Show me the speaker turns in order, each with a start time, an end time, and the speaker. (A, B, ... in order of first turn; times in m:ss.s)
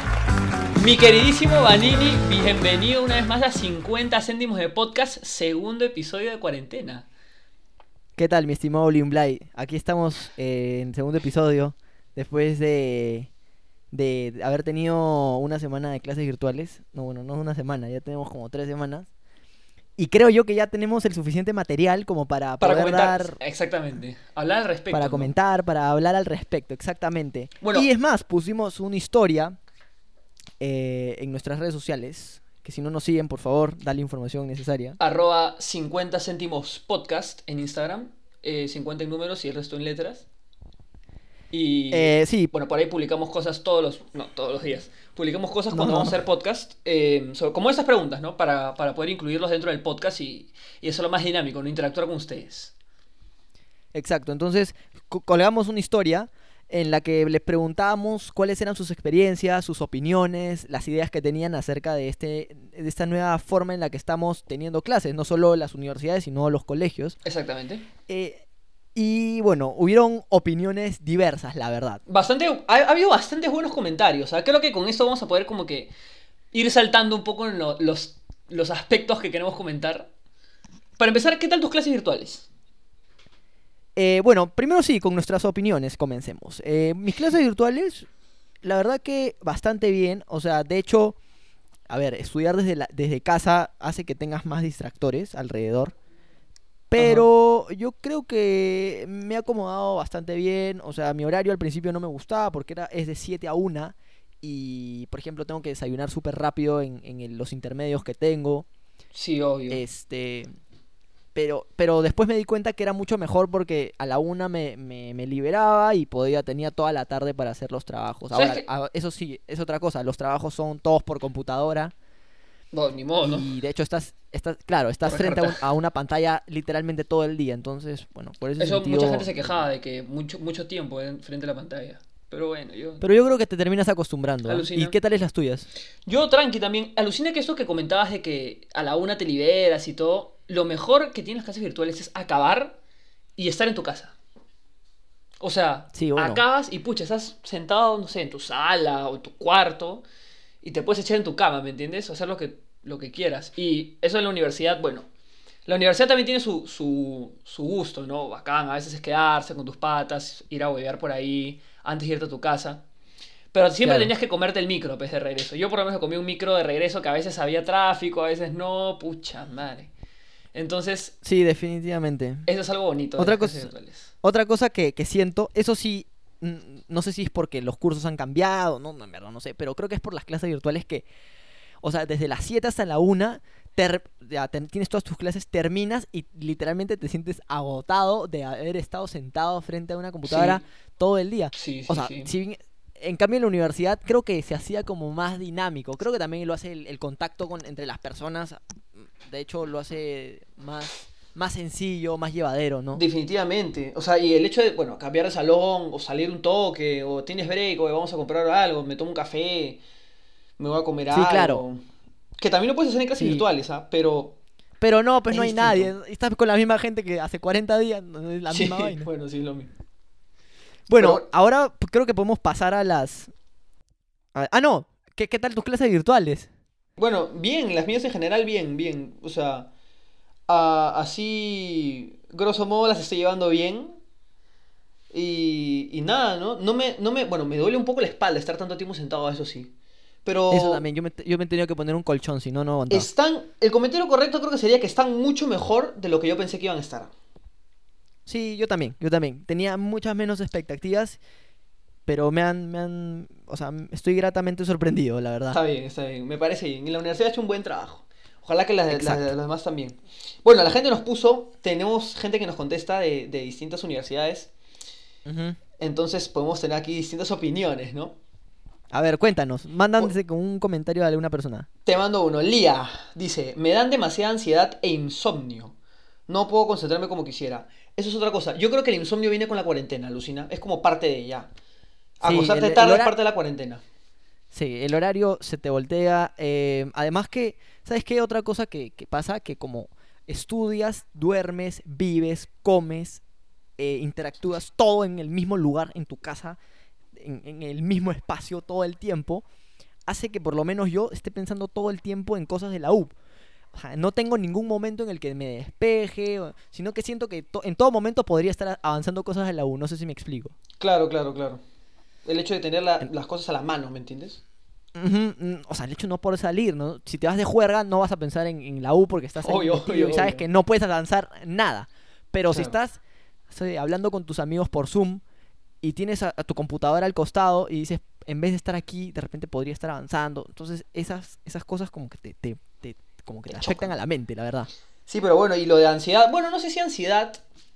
0:00.8-0:07.1 A
0:08.2-0:13.3 B
0:13.9-0:19.1 B
0:20.0-0:23.4 B
0:22.6-0:25.3 A
0:24.9-0:29.6 B
0:27.6-0:27.9 A
0:30.6-0:35.0 B
0:35.0-0:40.3 A
0:41.5-0:52.7 A
0:41.9-0:42.5 B
0:45.7-0:46.2 B
0:53.9-1:07.2 B
1:07.2-1:07.8 A
1:08.1-1:08.4 B
1:09.0-1:12.0 B
1:12.1-1:15.9 A
1:16.5-1:20.1 A
1:21.0-1:22.5 A
1:24.0-1:28.1 B
1:28.6-1:31.2 B
1:31.9-1:35.9 B
1:36.9-1:48.7 B
1:37.0-1:37.3 A
1:49.1-1:49.8 A
1:49.7-1:50.5 B
1:51.4-2:01.9 B
1:58.3-1:58.7 A
2:02.7-2:03.5 A
2:03.2-2:09.6 B
2:05.0-2:05.6 A
2:08.6-2:13.0 A
2:13.0-2:15.7 B
2:14.5-2:15.0 A
2:16.1-2:22.8 A
2:23.4-2:24.1 A
2:25.4-2:30.0 A
2:25.9-2:26.4 B
2:30.6-2:35.1 A
2:35.7-2:42.8 A
2:43.5-2:49.9 A
2:43.8-2:44.1 B
2:50.5-2:51.1 A
2:51.2-2:52.5 B
2:52.5-2:54.1 A
2:53.2-2:53.7 B
2:54.2-3:01.0 B
3:01.8-3:23.0 B
3:10.2-3:10.6 A
3:11.6-3:12.3 A
3:23.0-3:29.8 A
3:30.6-3:31.8 A
3:31.1-3:31.6 B
3:32.4-3:34.4 A
3:33.2-3:33.4 B
3:34.8-3:39.1 B
3:35.3-3:35.9 A
3:38.5-3:39.7 A
3:40.9-3:43.3 B
3:41.0-3:41.2 A
3:44.4-3:46.5 B
3:47.0-3:49.7 A
3:50.5-3:54.0 A
3:55.1-3:59.7 A
4:00.2-4:00.8 A
4:00.5-4:03.1 B
4:02.9-4:07.1 A
4:08.3-4:11.2 B
4:12.1-4:15.6 B
4:15.5-4:24.5 A
4:18.9-4:19.3 B
4:25.3-4:25.6 B
4:25.8-4:28.2 A
4:28.9-4:31.7 B
4:31.9-4:35.8 A
4:36.3-4:41.5 A
4:42.2-4:43.8 A
4:42.2-4:43.1 B
4:44.5-4:53.2 B
4:53.8-4:56.6 B
4:57.1-4:59.4 B
5:00.1-5:03.1 B
5:03.7-5:10.5 B
5:10.8-5:11.6 A
5:12.3-5:14.4 A
5:15.0-5:25.2 B
5:19.4-5:20.4 A
5:25.8-5:34.7 B
5:33.5-5:33.9 A
5:35.1-5:37.4 A